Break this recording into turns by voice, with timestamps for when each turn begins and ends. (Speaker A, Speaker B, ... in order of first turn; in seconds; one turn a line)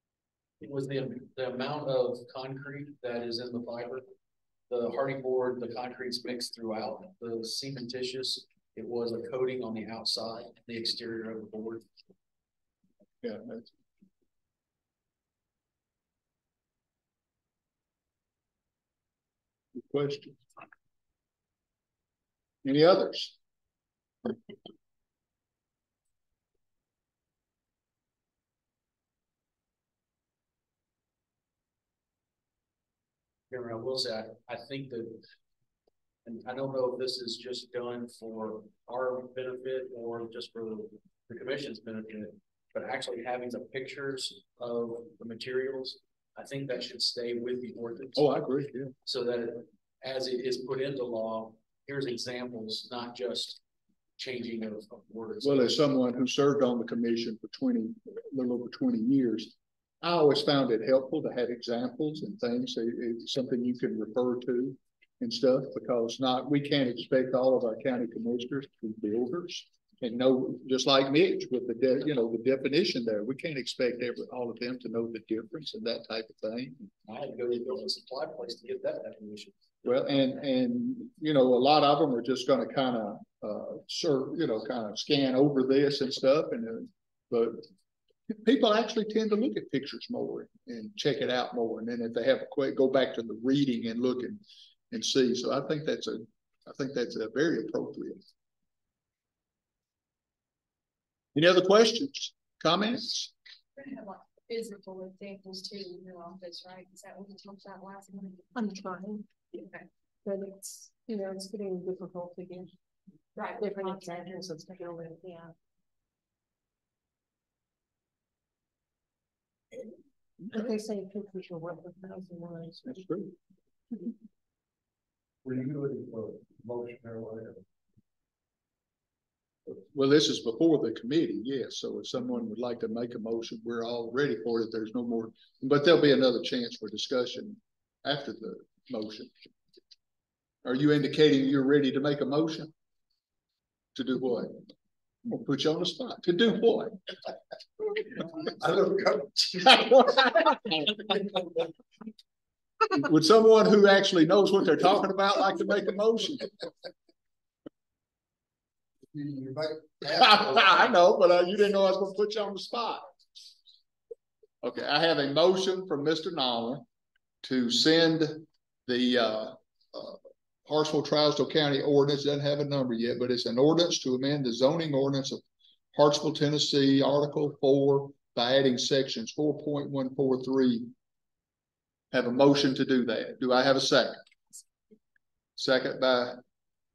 Speaker A: 0.6-4.0
Speaker A: 4.7-11.8
Speaker B: 13.2-13.7
Speaker B: 19.8-20.4
Speaker B: 22.6-23.3
Speaker A: 33.5-35.2
Speaker A: 36.2-48.2
Speaker B: 48.1-48.9
Speaker A: 49.0-53.6
Speaker A: 54.2-55.8
Speaker B: 55.4-76.8
Speaker A: 77.0-79.5
Speaker B: 79.8-87.7
Speaker B: 88.3-98.2
Speaker B: 101.3-103.3
Speaker C: 103.8-108.6
Speaker D: 108.5-109.3
Speaker C: 109.5-109.8
Speaker D: 110.2-112.7
Speaker C: 113.3-115.2
Speaker D: 113.5-115.5
Speaker D: 120.5-123.1
Speaker B: 122.8-123.3
Speaker E: 125.4-127.6
Speaker B: 129.7-139.5
Speaker B: 140.6-142.7
Speaker B: 143.9-144.6
Speaker B: 145.2-147.0
Speaker E: 148.4-150.2
Speaker B: 149.6-151.1
Speaker B: 152.9-156.5
Speaker E: 159.1-160.9
Speaker B: 160.1-163.1
Speaker B: 164.6-166.8
Speaker B: 167.4-175.4
Speaker B: 175.9-180.9
Speaker B: 182.1-184.2
Speaker B: 185.6-186.4